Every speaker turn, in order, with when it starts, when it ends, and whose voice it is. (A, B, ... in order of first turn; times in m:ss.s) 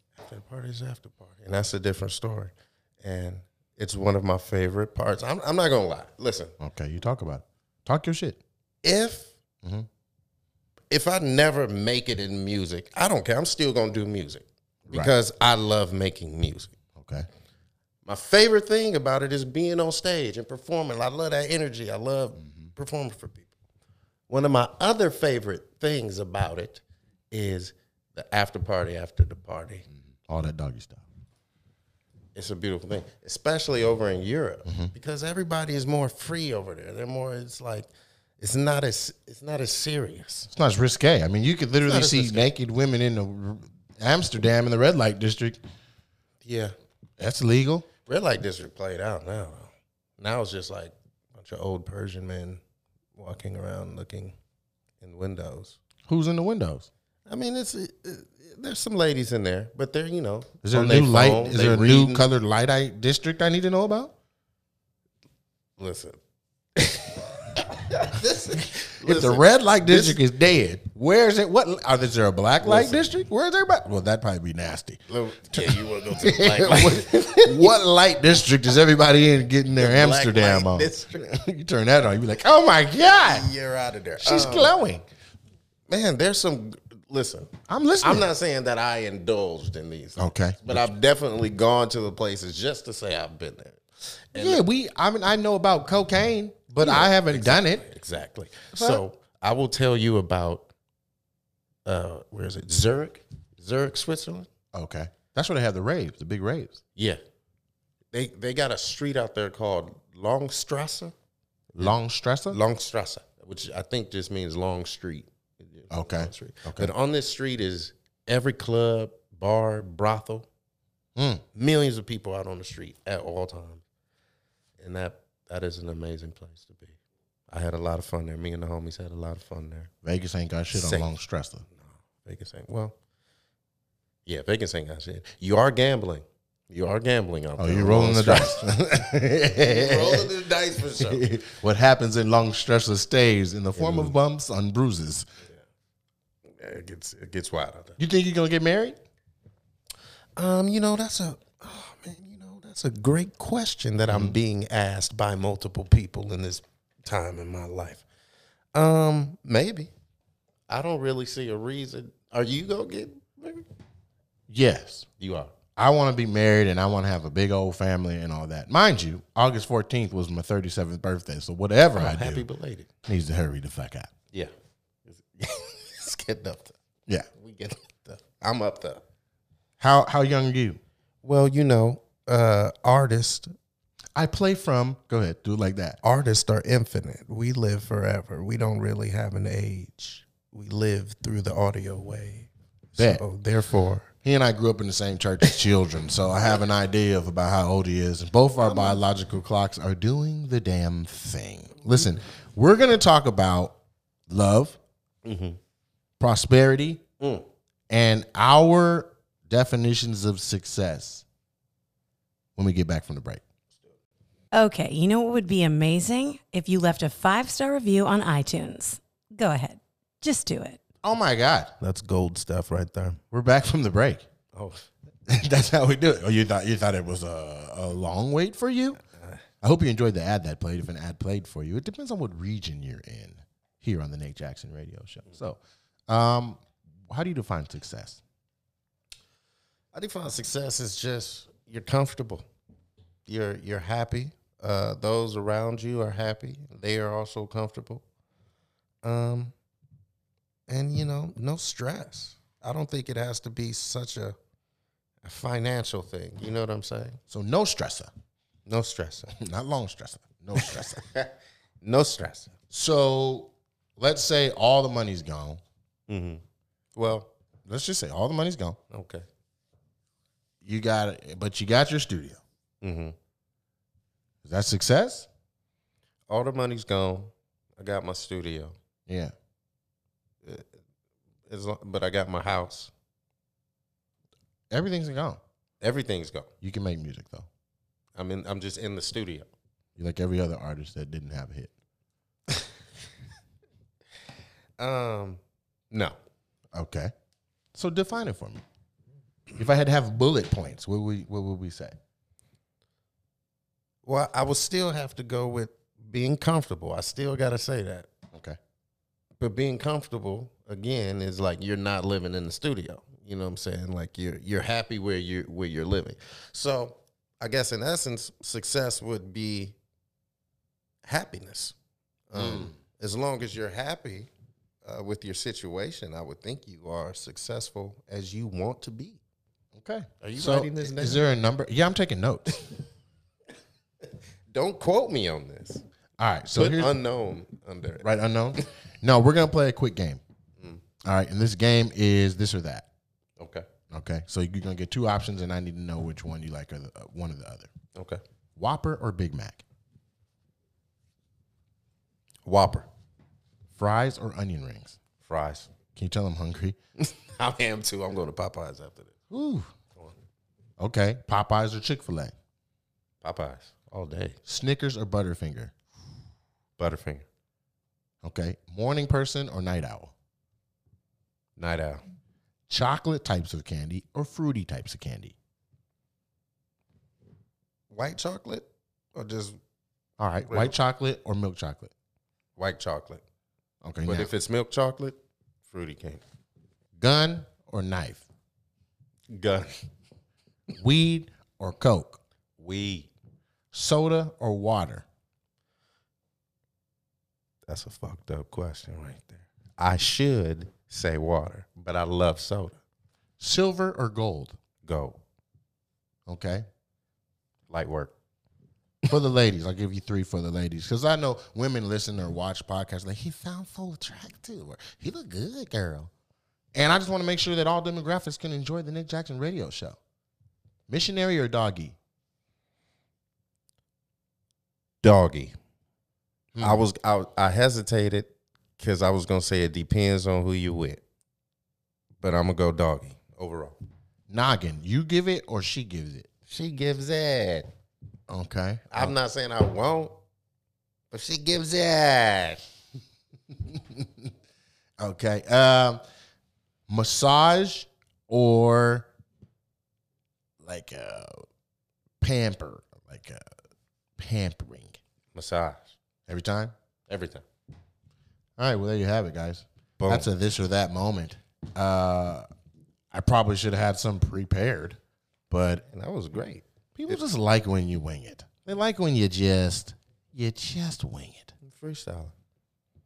0:00.2-0:06.5 A
0:06.6-0:08.4 B
0:08.8-0:09.3 A
0:10.9-0:16.7 A
0:17.0-0:17.3 B
0:18.0-0:23.5 A
0:24.3-0:29.8 A
0:30.2-0:31.0 B
0:32.3-0:40.5 A
0:34.6-0:34.9 B
0:40.5-0:45.6 B
0:41.8-0:42.5 A
0:46.4-0:46.7 A
0:47.2-0:47.9 B
0:48.1-0:52.6 A
0:53.2-0:54.3 A
0:55.0-0:55.8 A
0:56.1-0:56.9 B
0:57.3-1:02.2 A
1:00.6-1:04.1 B
1:05.8-1:06.2 A
1:06.8-1:10.2 A
1:09.0-1:23.5 B
1:12.6-1:13.0 A
1:15.1-1:17.7 A
1:19.8-1:21.4 A
1:23.1-1:24.7 A
1:24.2-1:25.0 B
1:25.9-1:34.6 A
1:27.7-1:28.3 B
1:30.2-1:30.9 B
1:34.3-1:37.8 B
1:36.8-1:40.7 A
1:38.7-1:39.0 B
1:41.8-1:44.5 A
1:44.7-1:46.8 B
1:48.1-1:51.1 A
1:51.8-1:52.6 B
1:52.5-2:00.5 A
1:55.9-1:56.9 B
2:01.2-2:01.4 B
2:01.5-2:03.8 A
2:04.8-2:07.0 A
2:07.5-2:09.9 A
2:10.0-2:11.6 B
2:10.7-2:11.1 A
2:11.8-2:13.0 A
2:14.2-2:18.7 A
2:17.6-2:20.3 B
2:19.5-2:21.3 A
2:21.0-2:25.2 B
2:23.8-2:24.1 A
2:26.6-2:28.0 A
2:28.0-2:29.0 B
2:30.4-2:38.0 A
2:34.1-2:34.4 B
2:38.7-2:39.9 A
2:40.7-2:43.6 A
2:44.5-2:45.0 B
2:45.2-2:45.5 A
2:45.8-2:52.4 B
2:52.0-2:52.9 A
2:53.0-2:54.1 B
2:55.1-2:56.7 A
2:57.3-2:59.0 A
2:59.8-3:00.8 B
3:01.2-3:03.5 A
3:04.2-3:06.0 B
3:06.0-3:14.1 A
3:13.0-3:13.2 B
3:14.2-3:23.8 B
3:18.6-3:19.0 A
3:24.3-3:24.8 B
3:25.2-3:25.6 A
3:26.2-3:27.0 B
3:27.2-3:27.4 A
3:27.9-3:31.2 B
3:32.6-3:33.4 B
3:34.5-3:40.8 C
3:41.0-3:41.7 B
3:41.8-3:43.2 A
3:43.3-3:44.2 B
3:44.5-3:44.8 A
3:45.3-3:49.0 B
3:49.6-3:58.2 B
3:59.9-4:02.4 A
4:03.3-4:08.0 A
4:09.0-4:09.5 A
4:10.7-4:14.4 A
4:15.2-4:17.2 A
4:17.3-4:18.1 B
4:18.7-4:19.3 A
4:19.3-4:21.0 B
4:20.6-4:22.5 A
4:22.7-4:25.6 B
4:26.1-4:26.4 A
4:26.9-4:27.3 A
4:27.6-4:28.8 B
4:28.9-4:29.2 A
4:30.6-4:32.4 B
4:32.8-4:33.2 A
4:34.4-4:35.3 B
4:36.3-4:38.7 A
4:39.1-4:39.3 B
4:40.4-4:40.7 A
4:41.5-4:42.9 A
4:44.7-4:45.4 B
4:45.8-4:46.5 A
4:46.6-4:47.5 B
4:48.2-4:49.5 A
4:50.0-4:51.7 B
4:54.8-4:56.2 A
4:56.7-4:57.1 B
4:57.7-4:58.6 B
4:59.6-5:02.0 B
5:04.0-5:08.1 A
5:09.4-5:19.7 A
5:21.0-5:21.7 A
5:22.3-5:24.3 A
5:22.3-5:22.7 B
5:24.8-5:29.2 A
5:29.7-5:32.6 B
5:30.2-5:31.2 A
5:34.5-5:35.8 A
5:36.2-5:37.0 B
5:36.5-5:38.6 A
5:38.0-5:40.2 B
5:41.0-5:42.8 B
5:43.4-5:43.7 A
5:43.9-5:47.7 B
5:47.9-5:48.2 A
5:48.6-5:49.6 B
5:52.4-5:52.9 A
5:53.8-5:55.0 B
5:55.2-5:55.7 A
5:55.9-5:56.8 B
5:57.0-5:59.1 A
5:59.3-5:59.7 B
6:00.8-6:02.3 B
6:03.2-6:04.4 A
6:04.5-6:05.7 B
6:06.8-6:07.2 A
6:08.2-6:10.1 B
6:11.6-6:12.0 A
6:12.7-6:15.3 B
6:17.9-6:19.6 A
6:20.2-6:21.9 B
6:20.5-6:20.7 A
6:22.6-6:23.2 A
6:23.8-6:24.3 B
6:24.0-6:25.2 A
6:25.7-6:26.2 A
6:27.0-6:28.2 B
6:29.3-6:29.8 A
6:30.8-6:32.2 B
6:32.6-6:33.1 A
6:33.7-6:35.0 B
6:37.7-6:42.8 A
6:43.4-6:44.6 B
6:44.8-6:45.2 A
6:46.2-6:46.6 B
6:47.7-6:48.1 A
6:49.1-6:56.1 B
6:56.7-7:00.0 B
7:00.9-7:02.0 B
7:05.0-7:05.5 A
7:06.5-7:06.8 B
7:06.6-7:11.0 A
7:12.2-7:13.8 A
7:14.3-7:16.3 B
7:16.5-7:17.7 A
7:18.3-7:19.1 B
7:18.9-7:20.2 A
7:21.1-7:22.6 A
7:23.7-7:24.3 B
7:25.0-7:26.0 B
7:26.9-7:29.1 B
7:30.6-7:31.4 B
7:32.2-7:33.4 B
7:34.2-7:35.0 B
7:35.3-7:35.9 A
7:36.3-7:36.7 B
7:37.1-7:37.4 A
7:38.6-7:42.4 B
7:40.0-7:40.3 A
7:43.1-7:45.0 B
7:45.5-7:45.8 B
7:45.9-7:47.2 A
7:47.0-7:51.5 B
7:51.6-7:52.3 A